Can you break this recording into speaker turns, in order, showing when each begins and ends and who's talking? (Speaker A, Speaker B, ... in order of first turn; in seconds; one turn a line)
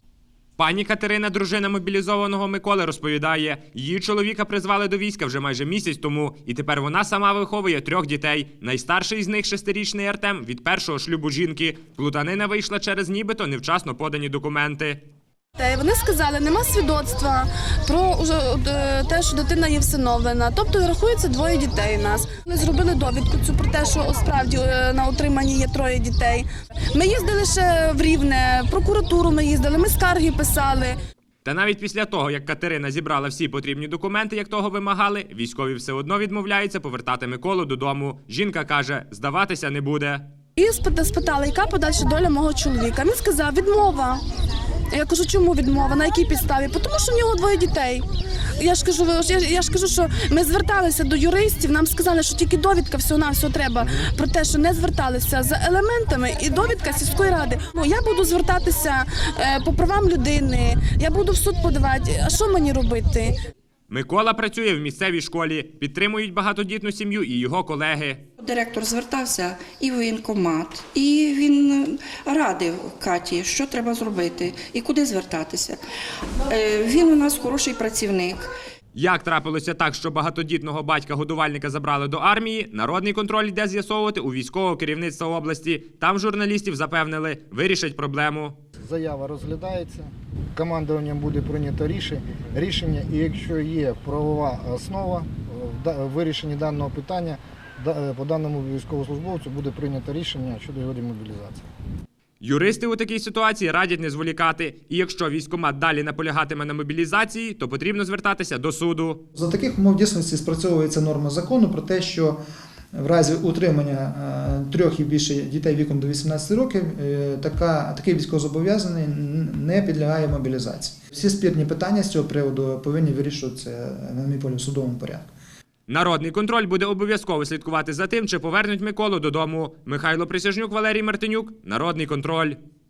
Speaker A: 0.6-15.0
Speaker B: 15.6-31.0
Speaker A: 31.4-40.3
Speaker B: 40.6-44.2
Speaker B: 44.9-48.0
Speaker B: 48.6-63.3
Speaker A: 63.9-68.2
Speaker C: 68.4-75.8
Speaker C: 76.5-78.5
Speaker A: 78.9-88.6
Speaker D: 88.8-101.6
Speaker A: 102.4-109.2
Speaker E: 109.3-112.4
Speaker E: 112.9-125.3
Speaker A: 125.9-132.6